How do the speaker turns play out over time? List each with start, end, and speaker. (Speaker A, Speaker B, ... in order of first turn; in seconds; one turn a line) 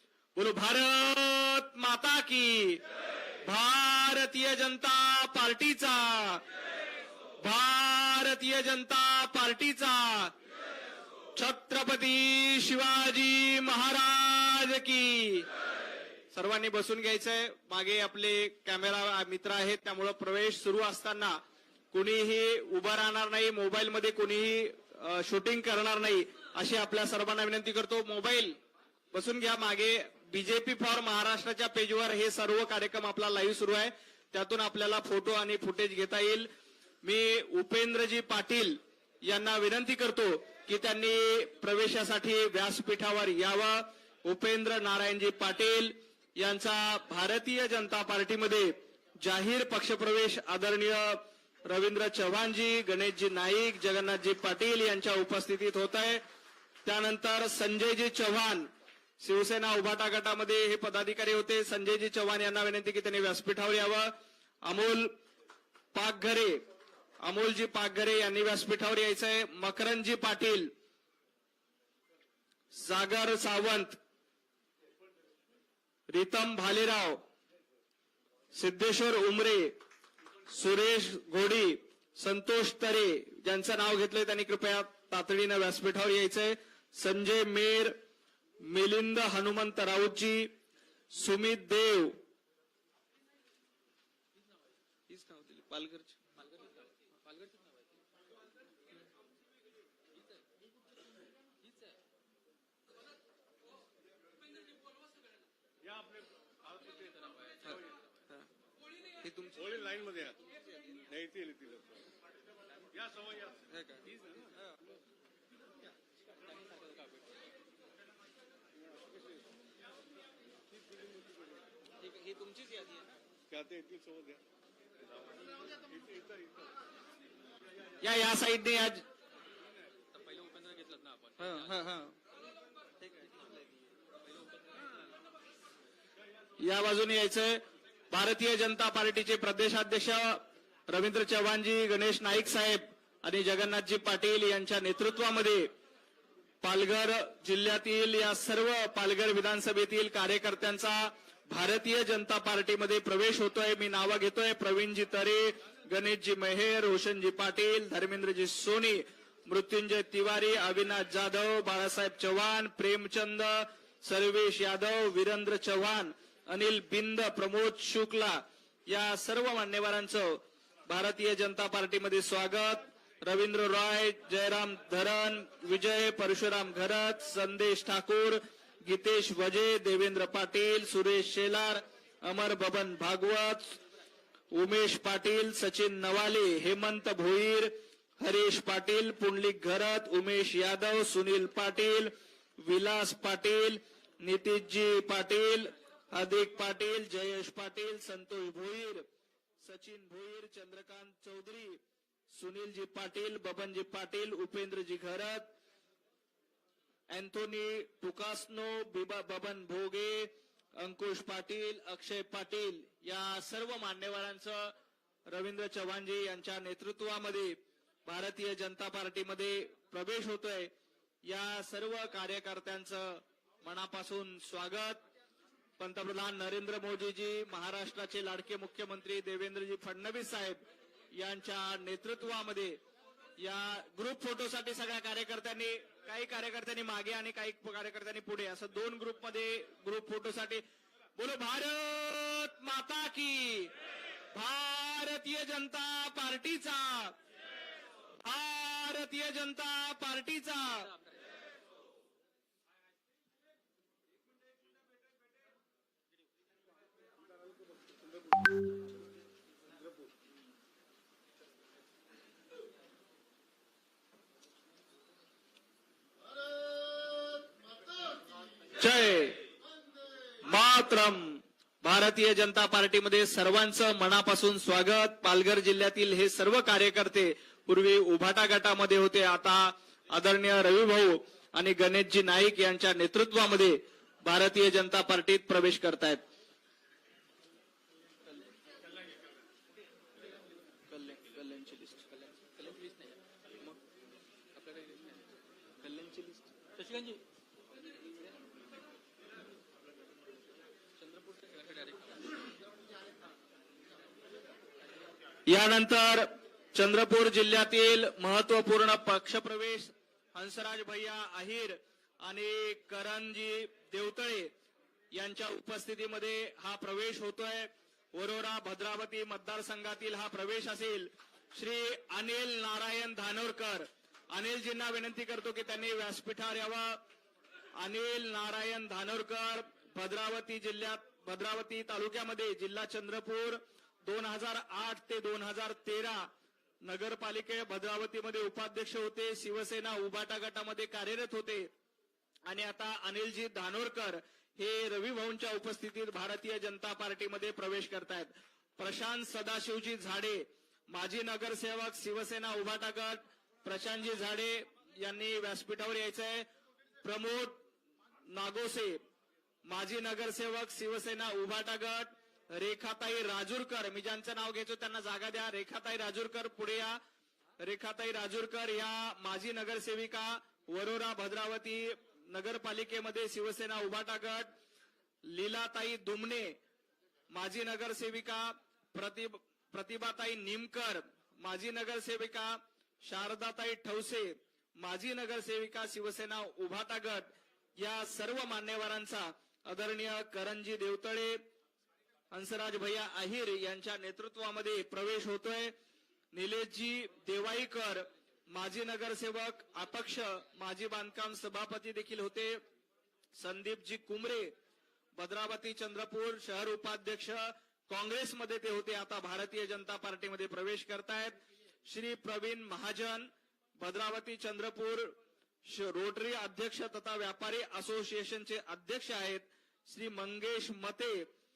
Speaker A: 0.3-2.8
Speaker A: 3.4-6.4
Speaker A: 7.4-10.3
Speaker A: 11.4-15.5
Speaker A: 16.3-21.4
Speaker A: 21.9-28.6
Speaker A: 29.1-36.5
Speaker A: 37.0-56.2
Speaker A: 56.9-65.2
Speaker A: 65.9-66.6
Speaker A: 67.2-70.7
Speaker A: 72.7-74.0
Speaker A: 76.1-77.2
Speaker A: 78.6-79.8
Speaker A: 80.5-88.0
Speaker A: 88.6-90.5
Speaker A: 91.1-92.2
Speaker A: 95.1-96.3
Speaker B: 97.3-97.8
Speaker C: 105.8-107.9
Speaker A: 109.2-109.6
Speaker C: 109.5-112.1
Speaker C: 112.9-114.5
Speaker A: 113.7-114.0
Speaker B: 116.7-117.0
Speaker C: 120.8-121.3
Speaker A: 122.0-123.2
Speaker C: 123.5-124.4
Speaker C: 125.2-126.7
Speaker A: 128.0-129.1
Speaker B: 130.2-131.3
Speaker A: 131.4-132.1
Speaker A: 136.6-145.7
Speaker A: 146.6-183.8
Speaker A: 184.5-199.1
Speaker A: 199.6-205.5
Speaker A: 207.1-214.7
Speaker A: 215.3-217.6
Speaker A: 218.1-220.7
Speaker A: 221.3-225.0
Speaker A: 225.8-230.6
Speaker A: 231.2-232.8
Speaker A: 233.4-240.6
Speaker A: 241.2-243.7
Speaker A: 244.3-247.2
Speaker A: 248.2-250.9
Speaker A: 268.8-269.4
Speaker A: 270.4-286.2
Speaker A: 290.9-292.8
Speaker B: 292.8-293.1
Speaker B: 294.6-295.1
Speaker A: 295.8-297.1
Speaker B: 296.8-297.2
Speaker B: 301.1-302.3
Speaker A: 305.5-314.5
Speaker A: 315.1-327.0
Speaker A: 327.8-336.3
Speaker A: 336.8-341.7
Speaker A: 342.5-356.5
Speaker A: 357.0-357.6
Speaker A: 358.3-359.0
Speaker A: 359.7-367.0
Speaker A: 367.6-374.5
Speaker A: 375.2-376.6
Speaker A: 377.3-391.4
Speaker A: 392.3-395.7
Speaker A: 396.3-402.6
Speaker A: 403.4-404.5
Speaker A: 405.2-421.3